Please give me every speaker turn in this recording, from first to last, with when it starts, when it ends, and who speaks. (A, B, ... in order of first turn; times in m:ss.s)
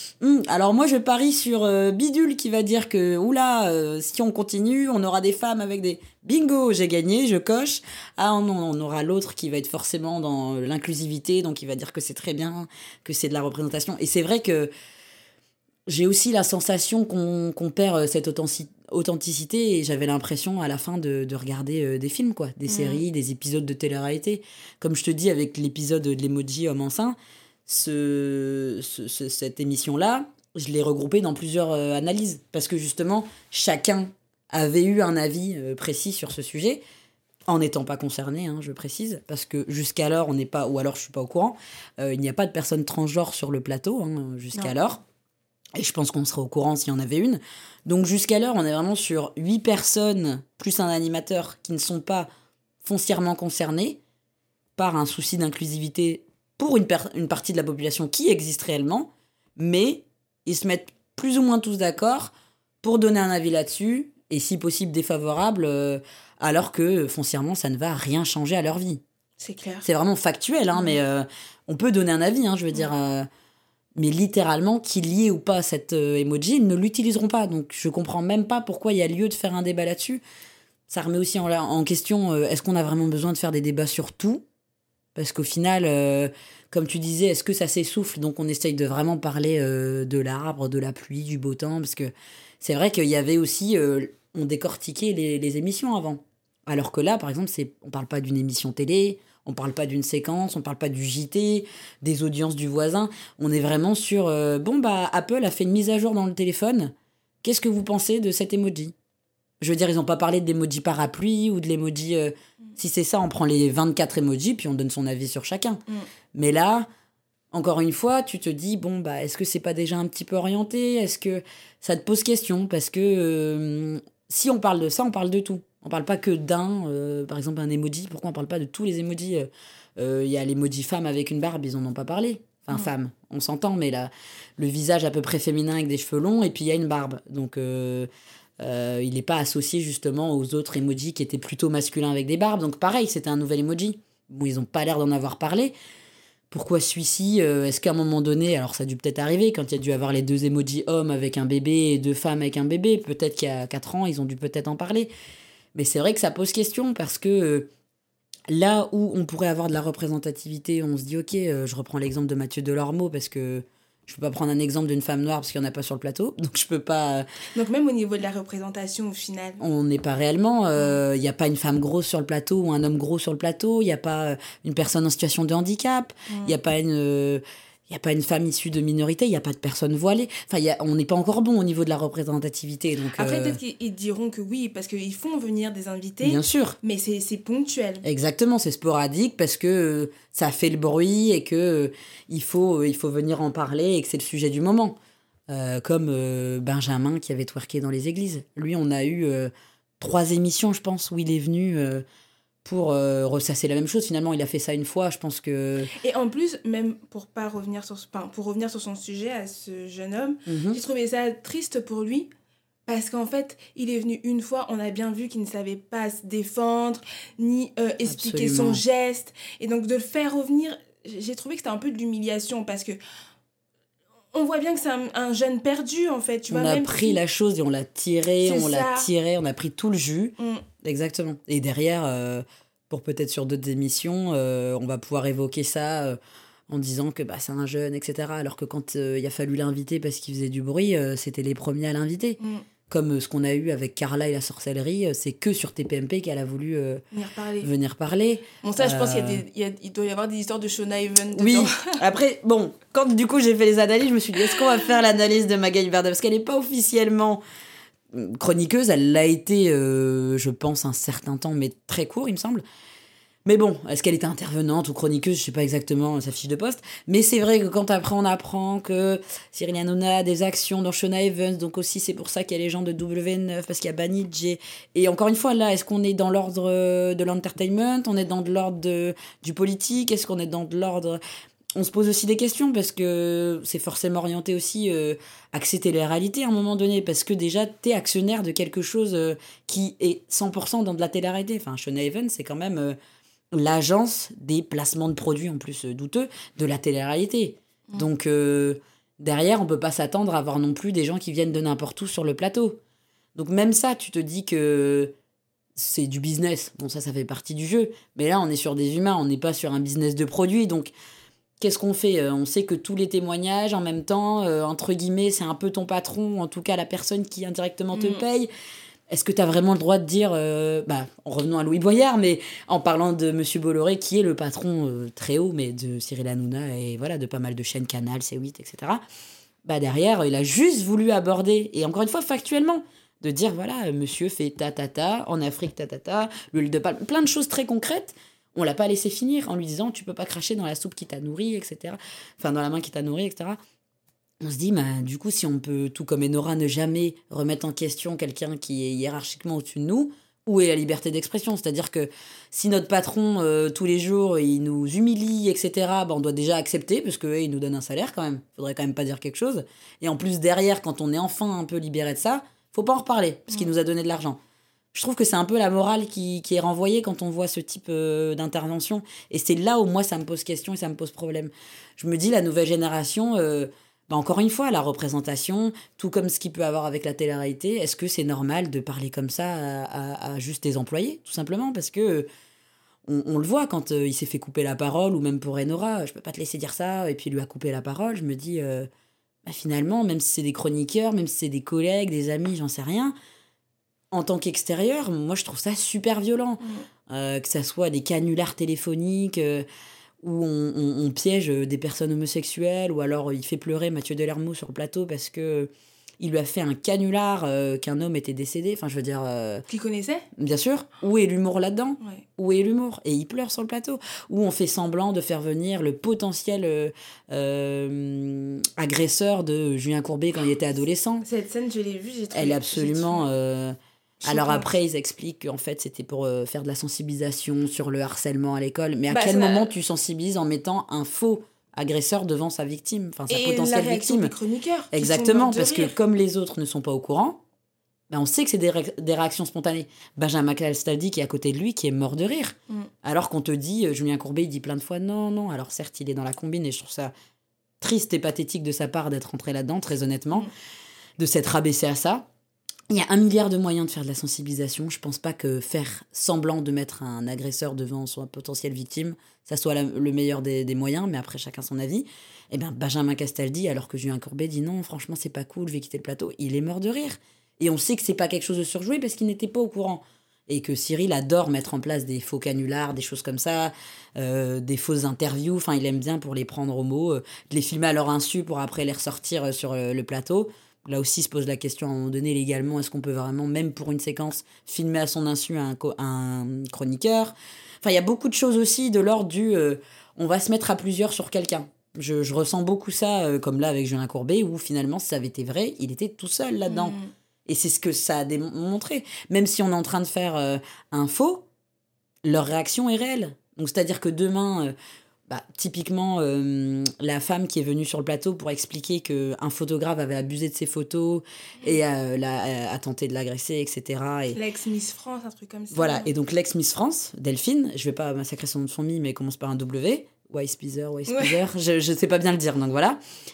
0:00.2-0:14.7 A
0:15.9-0:36.8 A
0:22.7-0:23.0 B
0:37.5-0:45.0 A
0:45.8-0:52.3 A
0:52.8-0:54.0 A
0:54.8-1:09.0 A
1:09.4-1:09.9 B
1:09.8-1:13.3 A
1:14.0-1:20.2 A
1:20.9-1:24.4 A
1:25.2-1:48.9 A
1:49.6-1:55.8 A
1:56.3-1:56.9 A
1:57.5-2:18.1 A
2:18.6-2:25.7 A
2:26.5-2:35.1 A
2:35.8-2:37.7 A
2:38.5-2:47.3 A
2:47.6-2:49.6 B
2:49.6-3:03.6 A
2:56.3-2:56.6 B
3:03.2-3:08.1 B
3:06.2-3:06.8 A
3:08.0-3:15.0 A
3:15.5-3:22.0 A
3:22.6-3:25.9 A
3:26.0-3:32.3 B
3:30.5-3:30.8 A
3:32.9-3:43.0 B
3:38.1-3:38.8 A
3:44.3-3:47.2 B
3:46.5-3:56.2 A
3:48.4-3:49.1 B
3:50.4-3:50.6 B
3:56.7-4:07.0 A
4:02.4-4:02.6 B
4:07.1-4:07.7 B
4:07.6-4:09.4 A
4:08.6-4:12.0 B
4:11.3-4:17.4 A
4:18.1-4:22.6 A
4:23.4-4:41.2 A
4:41.8-4:53.0 A
4:53.5-5:02.8 A
5:03.4-5:05.1 A
5:05.8-5:10.9 A
5:11.6-5:18.5 A
5:17.9-5:18.2 B
5:19.1-5:29.0 A
5:29.6-5:43.6 A
5:44.4-6:04.4 A
6:04.9-6:22.3 A
6:23.1-6:28.9 A
6:29.4-6:33.1 A
6:34.1-6:39.7 A
6:40.2-6:49.7 A
6:49.7-6:50.3 B
6:50.4-7:01.3 A
7:01.2-7:03.2 B
7:02.3-7:14.3 A
7:04.2-7:04.7 B
7:09.1-7:09.7 B
7:13.3-7:15.9 B
7:14.9-7:17.4 A
7:18.1-7:27.1 A
7:27.8-7:30.5 A
7:31.2-7:32.3 A
7:32.9-8:21.5 A
8:16.7-8:17.1 B
8:22.2-8:24.7 A
8:25.3-8:34.4 A
8:34.3-8:36.1 B
8:35.7-8:43.0 A
8:41.1-8:41.4 B